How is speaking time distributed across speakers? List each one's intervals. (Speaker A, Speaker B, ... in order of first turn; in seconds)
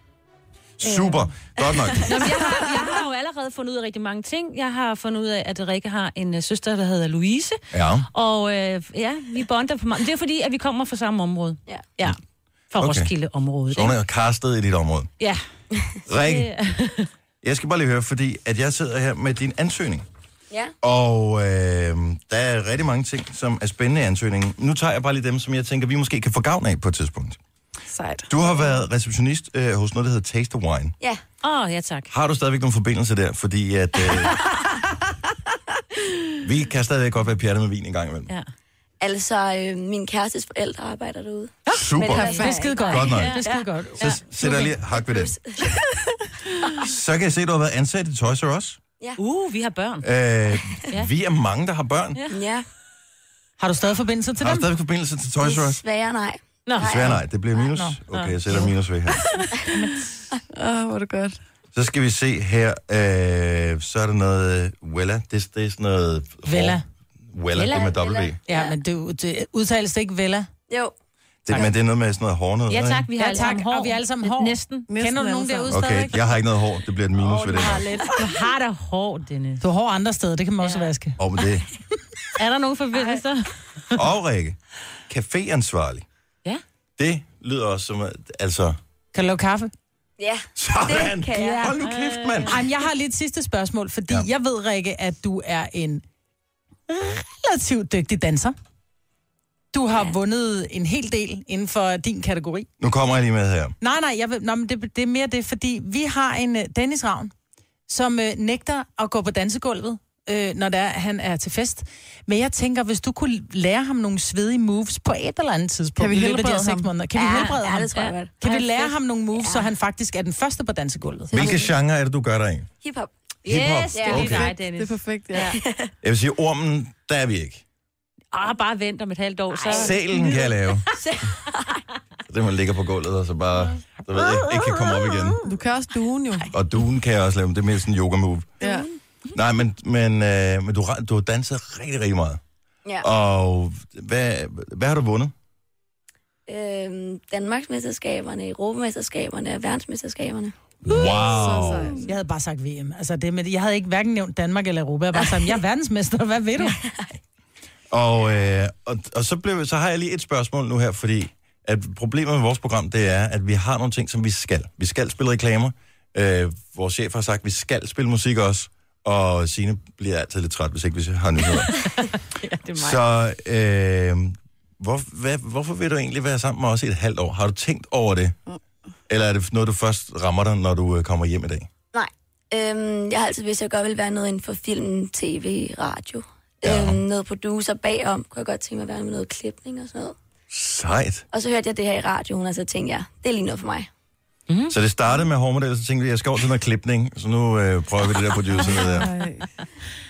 Speaker A: 0.8-2.4, 7.7-8.1, 12.8-13.1, 13.7-15.1, 16.1-16.5, 17.4-20.1, 20.8-27.4, 28.3-30.9, 32.1-34.4, 36.4-38.3, 41.7-42.2, 42.9-43.4, 44.0-45.4, 46.8-48.8, 50.0-52.2, 54.4-55.8, 56.8-59.3, 61.7-68.4, 71.5-73.1, 75.7-78.0, 81.2-81.7, 83.9-84.6, 85.1-86.0, 87.0-88.8, 90.5-92.6, 102.8-103.7, 121.3-122.7, 123.5-124.5, 126.0-127.6, 129.7-130.8, 132.3-135.4, 136.5-138.5, 139.3-142.4, 143.0-145.3, 150.8-151.9, 157.9-171.7, 172.7-178.4, 179.1-181.7, 186.6-187.0, 190.5-191.2, 194.7-199.1
Speaker B: 1.8-3.0, 34.1-34.5, 39.0-43.7, 44.4-45.6, 52.3-52.6, 55.4-57.2, 67.7-68.7, 70.7-70.9, 82.9-83.2, 90.2-91.8, 117.1-118.8, 119.3-119.7, 121.3-121.7, 122.8-123.1, 123.9-124.4, 125.4-125.9, 129.5-131.8, 134.7-135.0, 146.5-150.5, 155.2-155.5, 156.8-157.1, 181.9-190.2, 191.3-193.9
Speaker C: 2.0-7.6, 8.1-12.2, 12.7-13.9, 16.2-17.1, 31.4-32.1, 42.2-43.4, 49.2-50.1, 56.6-57.1, 58.1-58.4, 67.5-68.1, 72.7-74.9, 77.3-79.6, 80.6-80.9, 82.4-84.0, 91.8-92.5, 117.3-118.6, 123.4-125.5, 128.3-130.4, 172.5-173.0, 194.5-194.7
Speaker D: 27.9-28.3, 42.1-42.6, 59.1-59.5, 60.5-61.4, 74.9-76.2, 116.0-117.0, 124.2-125.5, 135.4-136.5, 138.6-138.9, 151.0-152.0, 198.9-199.4
Speaker E: 42.2-44.7, 53.6-54.7, 66.5-66.8, 68.5-70.5, 73.2-76.2, 77.9-78.4, 79.6-81.2, 89.1-89.7, 92.5-96.0, 96.9-98.5, 99.7-102.7, 103.8-107.3, 107.9-121.3, 152.0-156.8